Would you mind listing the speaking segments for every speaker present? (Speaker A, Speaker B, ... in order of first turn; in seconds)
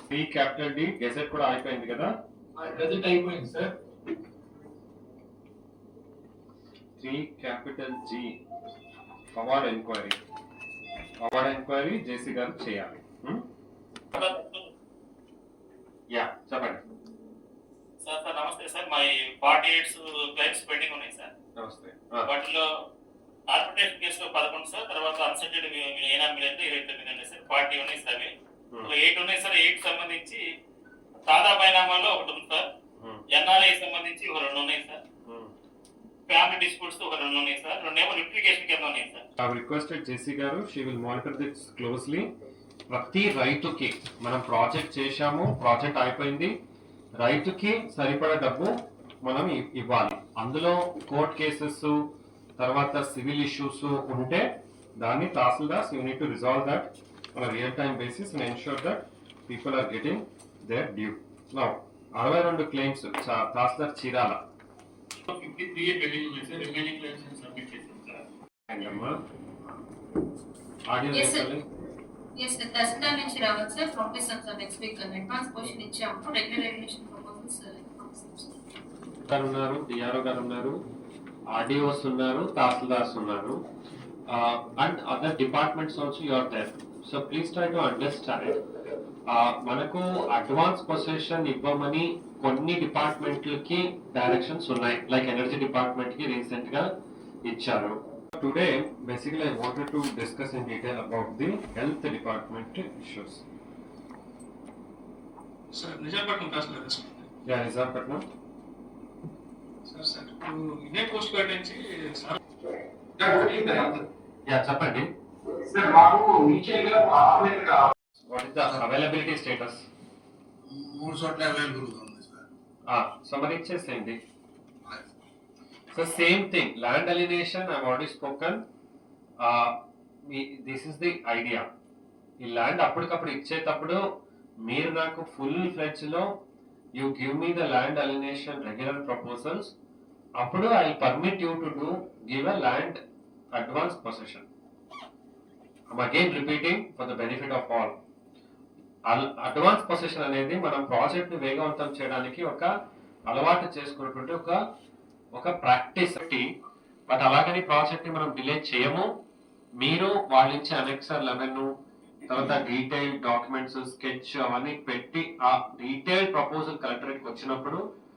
Speaker A: 0.1-2.1, 7.0-8.3, 9.3-10.2, 11.2-13.4, 16.1-16.8, 21.6-22.3, 35.3-35.5, 39.4-42.3, 42.9-46.5, 47.2-48.7, 49.2-52.0, 52.6-54.5, 55.0-64.4, 68.7-69.2, 70.9-71.7, 79.3-80.8, 81.5-83.6, 84.3-88.6, 89.3-96.9, 97.4-103.4, 107.5-108.2, 114.5-115.1, 118.3-119.8, 122.9-124.2, 125.9-128.6, 129.4-129.7, 130.3-131.7, 132.4-134.0, 134.7-136.3, 137.0-139.7, 140.4-143.0, 143.6-144.4, 145.9-147.9, 149.1-152.7, 153.3-154.6, 155.4-156.4, 157.1-159.1, 159.8-161.7, 162.3-167.8
Speaker B: 2.6-3.7, 65.3-68.2, 116.0-116.4
Speaker C: 14.1-14.7, 18.0-21.3, 22.3-22.6, 23.5-28.3, 28.9-30.4, 31.3-32.6, 33.3-35.0, 36.3-39.2
Speaker D: 71.1-71.5, 72.3-78.5
Speaker E: 105.7-107.3, 109.9-112.4
Speaker F: 120.6-122.5, 124.8-125.1